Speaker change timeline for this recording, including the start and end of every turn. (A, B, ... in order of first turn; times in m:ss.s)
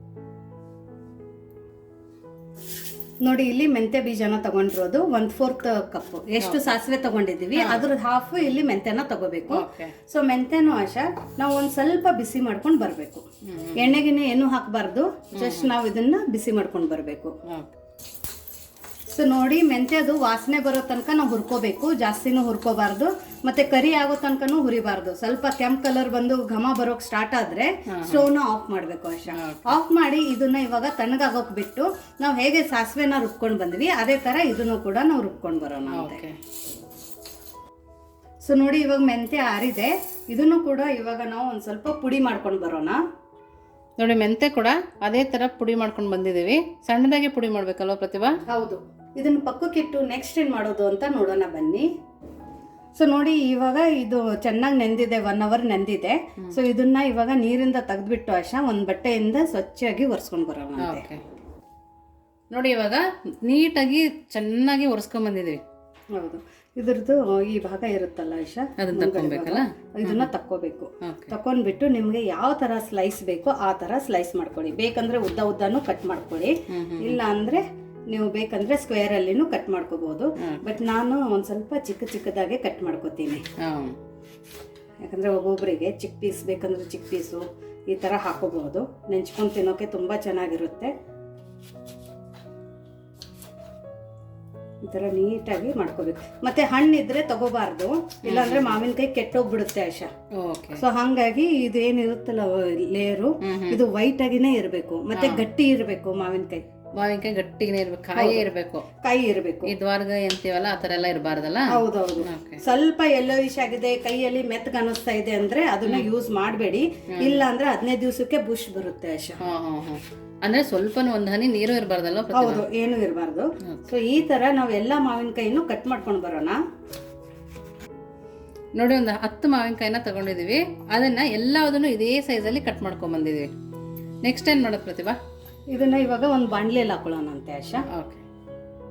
0:03.2-0:13.2 A
0:06.4-0:06.7 B
0:07.5-0:07.9 B
0:09.5-0:09.9 B
0:13.5-0:14.0 B
0:13.8-0:17.3 A
0:15.3-0:15.7 B
0:19.1-0:36.2 A
0:27.9-0:28.3 B
0:29.3-0:29.8 B
0:35.9-0:36.4 B
0:38.4-0:43.0 A
0:44.0-0:48.4 B
0:48.5-0:51.9 A
0:52.9-1:01.0 A
1:00.8-1:01.2 B
1:02.5-1:05.6 B
1:06.1-1:23.4 A
1:08.8-1:10.3 B
1:11.0-1:11.3 B
1:16.7-1:17.2 B
1:23.6-1:24.0 B
1:25.0-1:30.9 A
1:34.8-1:40.1 A
1:38.2-1:38.8 B
1:40.4-1:40.8 B
1:40.8-1:46.6 A
1:43.4-1:43.8 B
1:45.1-1:45.4 B
1:47.0-1:48.8 B
1:48.1-1:48.4 A
1:49.0-1:49.7 A
1:49.7-1:52.6 B
1:51.7-1:59.4 A
1:57.1-1:57.4 B
1:59.4-2:02.6 B
2:02.3-2:06.6 A
2:08.8-2:13.5 B
2:14.2-2:15.2 B
2:15.7-2:17.8 A
2:17.9-2:18.2 B